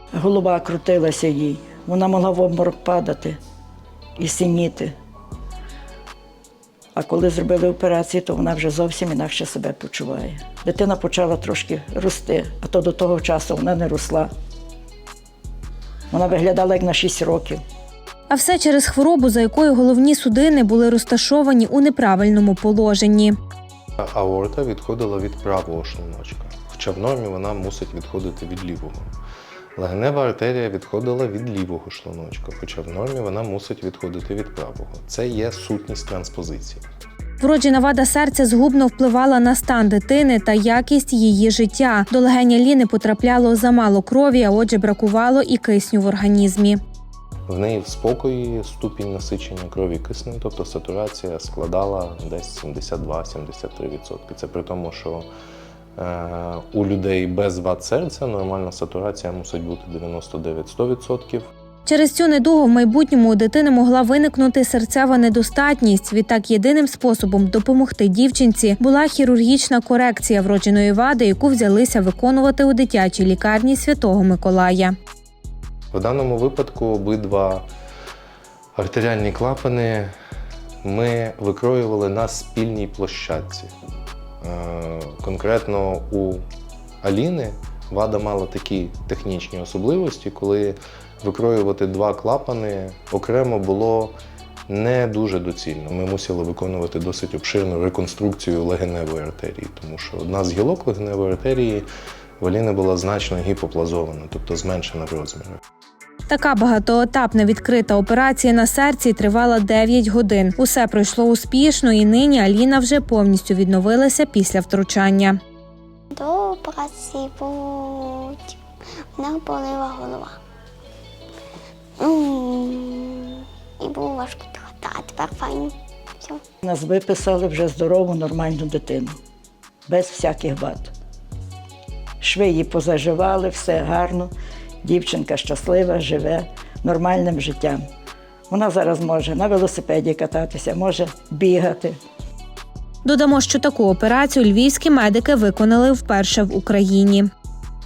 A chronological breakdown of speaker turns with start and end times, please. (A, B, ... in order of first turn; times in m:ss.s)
0:00.1-0:03.4 A
0:04.2-0:04.9 A
0:07.0-0:14.3 A
0:16.1-0:17.6 A
0:18.3-0:23.4 B
0:24.0-0:29.1 C
0:29.8-0:36.8 C
0:37.4-0:46.8 B
0:47.5-0:55.3 C
0:56.0-1:01.5 C
1:01.8-1:15.0 B
1:15.9-1:17.6 C
1:18.8-1:20.1 C
1:20.8-1:23.7 C
1:24.4-1:26.4 C
1:27.0-1:34.1 C
1:34.7-1:41.9 C
1:42.4-1:45.6 C
1:46.3-1:55.4 B
1:56.1-1:58.6 D
1:59.2-2:00.4 D
2:02.0-2:06.4 D
2:06.6-2:09.2 A
2:09.9-2:10.9 A
2:12.2-2:17.8 A
2:18.5-2:22.0 A
2:23.0-2:27.3 B